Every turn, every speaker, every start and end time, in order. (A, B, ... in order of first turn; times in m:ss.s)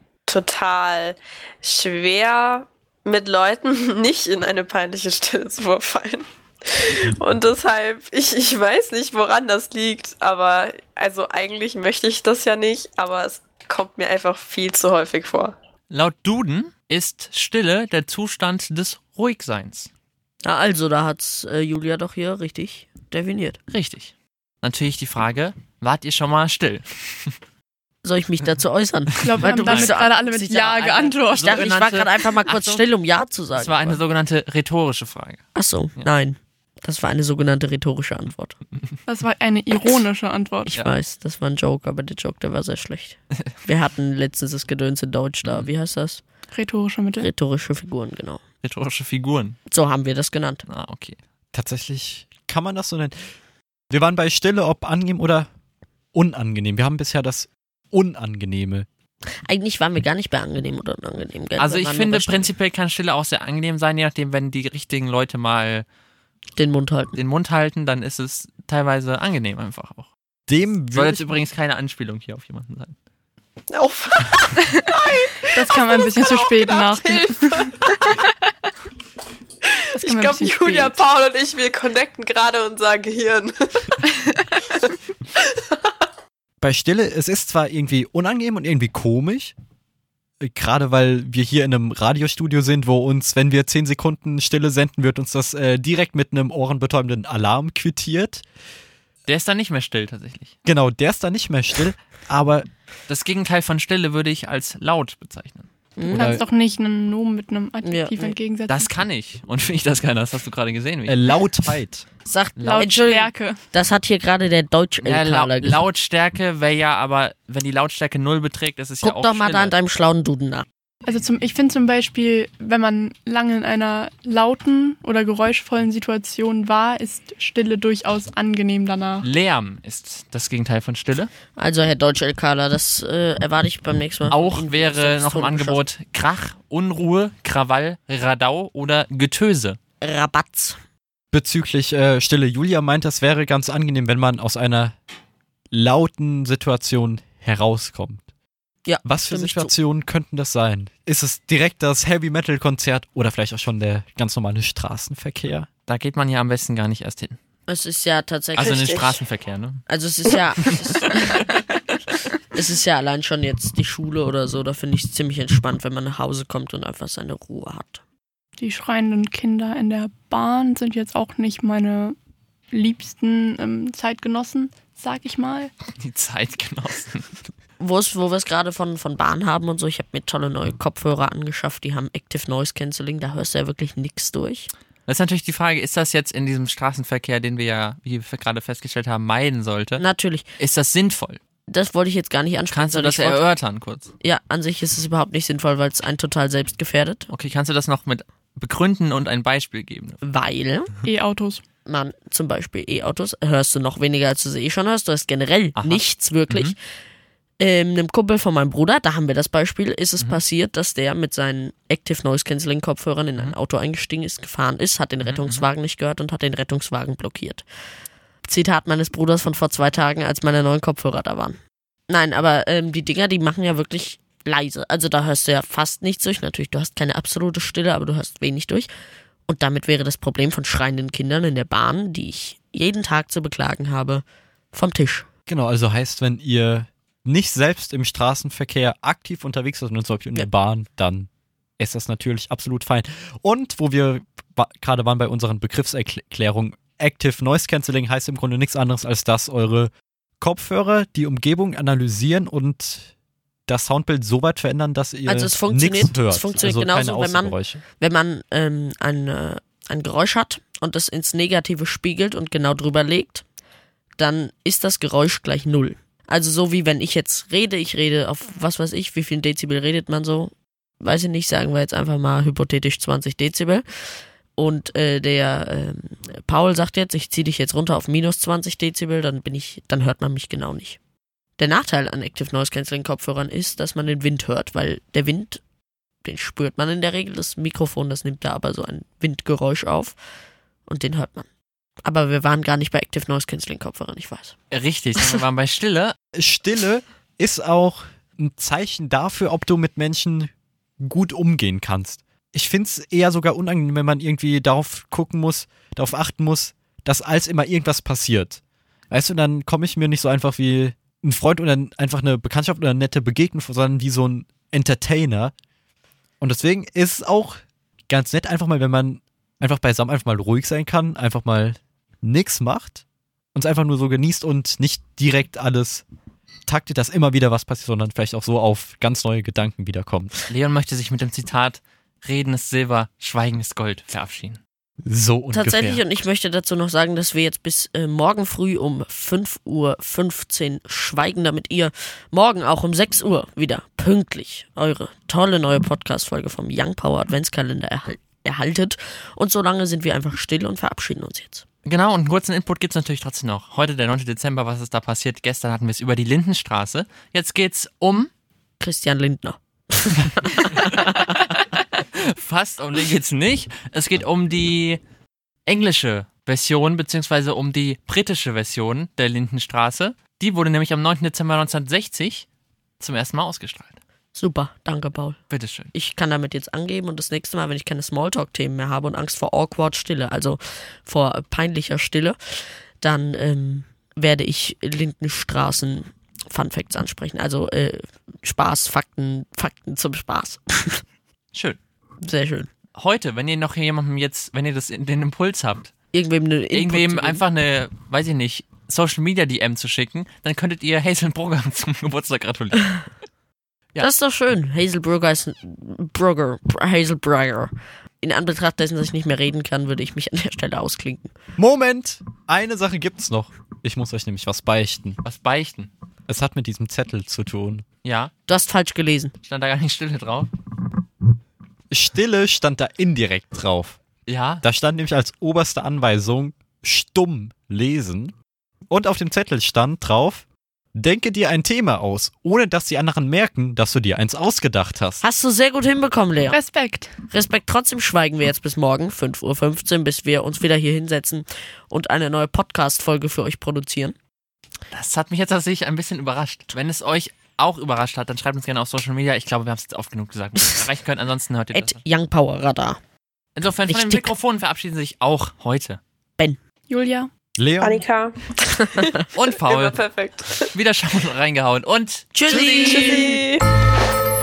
0:00.3-0:15.5 A
0:15.9-0:19.9 B
0:20.4-0:23.6 C
0:23.7-0:27.3 B
0:28.0-0:34.0 C
0:29.2-0:31.7 D
0:29.3-0:30.0 B
0:31.2-0:32.8 B
0:33.5-0:35.4 B
0:35.5-0:38.6 C
0:39.1-0:40.7 D
0:40.7-0:46.2 C
0:46.5-0:47.3 D
0:47.2-0:48.4 C
0:48.6-0:49.6 B
0:49.7-0:50.6 C
0:50.7-0:51.2 B
0:51.5-0:53.2 E
0:53.9-0:55.5 E
0:56.1-0:58.8 E
0:59.5-1:02.5 C
1:01.6-1:05.8 B
1:06.6-1:07.2 C
1:07.1-1:10.1 B
1:10.5-1:11.3 E
1:10.9-1:13.0 B
1:13.7-1:18.1 A
1:15.5-1:18.1 D
1:19.6-1:24.0 A
1:19.9-1:20.9 D
1:24.7-1:25.9 A
1:26.6-1:29.5 E
1:30.4-1:38.4 E
1:39.2-1:40.5 B
1:40.7-1:42.7 E
1:43.1-1:45.7 B
1:46.0-1:46.4 C
1:46.1-1:48.9 D
1:46.1-1:46.4 E
1:47.8-1:48.4 C
1:48.7-1:51.2 B
1:51.1-1:52.1 E
1:52.2-1:55.8 C
1:52.6-1:52.8 B
1:52.7-1:53.6 D
1:55.0-1:59.7 B
1:59.0-2:00.7 C
2:01.0-2:09.3 D
2:09.2-2:11.3 B
2:11.6-2:15.9 C
2:14.3-2:19.8 B
2:20.0-2:20.8 C
2:21.3-2:25.0 E
2:25.7-2:28.2 E
2:28.8-2:29.7 C
2:29.0-2:35.7 E
2:35.9-2:37.4 B
2:37.7-2:39.1 C
2:38.5-2:39.8 B
2:38.6-2:39.1 A
2:39.9-2:41.5 C
2:42.5-2:48.0 C
2:48.6-2:52.2 D
2:52.7-2:55.7 D
2:56.0-2:57.3 B
2:57.8-3:04.7 C
3:05.0-3:10.0 B
3:10.0-3:10.4 C
3:10.6-3:11.4 B
3:11.7-3:13.5 C
3:12.7-3:14.1 B
3:14.2-3:17.3 C
3:17.3-3:20.2 B
3:20.2-3:20.9 C
3:21.0-3:21.6 D
3:21.8-3:26.7 C
3:25.8-3:26.7 B
3:27.6-3:37.6 C
3:35.2-3:35.7 B
3:38.4-3:41.6 C
3:42.1-3:48.9 C
3:49.5-3:55.3 C
3:55.5-4:13.1 E
4:13.7-4:17.8 E
4:15.3-4:23.4 C
4:24.2-4:33.8 C
4:34.6-4:41.0 C
4:41.6-4:45.6 C
4:46.2-4:50.2 C
4:50.9-4:51.5 C
4:52.0-4:54.5 C
4:54.7-4:56.2 B
4:56.4-5:00.5 E
5:01.0-5:15.5 E
5:16.4-5:23.0 E
5:23.5-5:26.0 E
5:26.6-5:30.3 E
5:30.5-5:34.6 B
5:35.0-5:36.0 E
5:35.5-5:51.6 C
5:51.8-5:58.3 B
5:58.8-6:01.0 C
6:00.7-6:05.0 B
6:05.7-6:12.5 B
6:13.0-6:14.0 B
6:14.4-6:15.4 C
6:15.5-6:15.9 B
6:15.9-6:22.4 C
6:23.0-6:31.0 C
6:31.5-6:31.8 B
6:32.2-6:32.7 C
6:32.9-6:35.9 B
6:36.1-6:37.4 C
6:36.7-6:43.0 B
6:44.0-6:47.7 C
6:48.2-6:51.3 C
6:51.6-6:55.2 E
6:55.2-6:55.9 B
6:56.3-6:57.8 E
6:58.0-6:58.3 B
6:58.5-6:59.3 C
6:59.4-7:00.5 B
7:01.9-7:04.0 E
7:04.2-7:04.6 B
7:04.6-7:08.4 E
7:08.9-7:15.2 E
7:15.2-7:16.6 C
7:16.5-7:17.1 D
7:17.3-7:24.1 C
7:24.9-7:32.0 B
7:31.7-7:33.0 C
7:33.6-7:36.0 B
7:33.9-7:34.3 C
7:36.9-7:37.3 D
7:37.6-7:38.0 E
7:37.8-7:40.7 A
7:39.3-7:40.0 B
7:40.7-7:43.4 B
7:42.3-7:43.4 C
7:42.5-7:43.6 A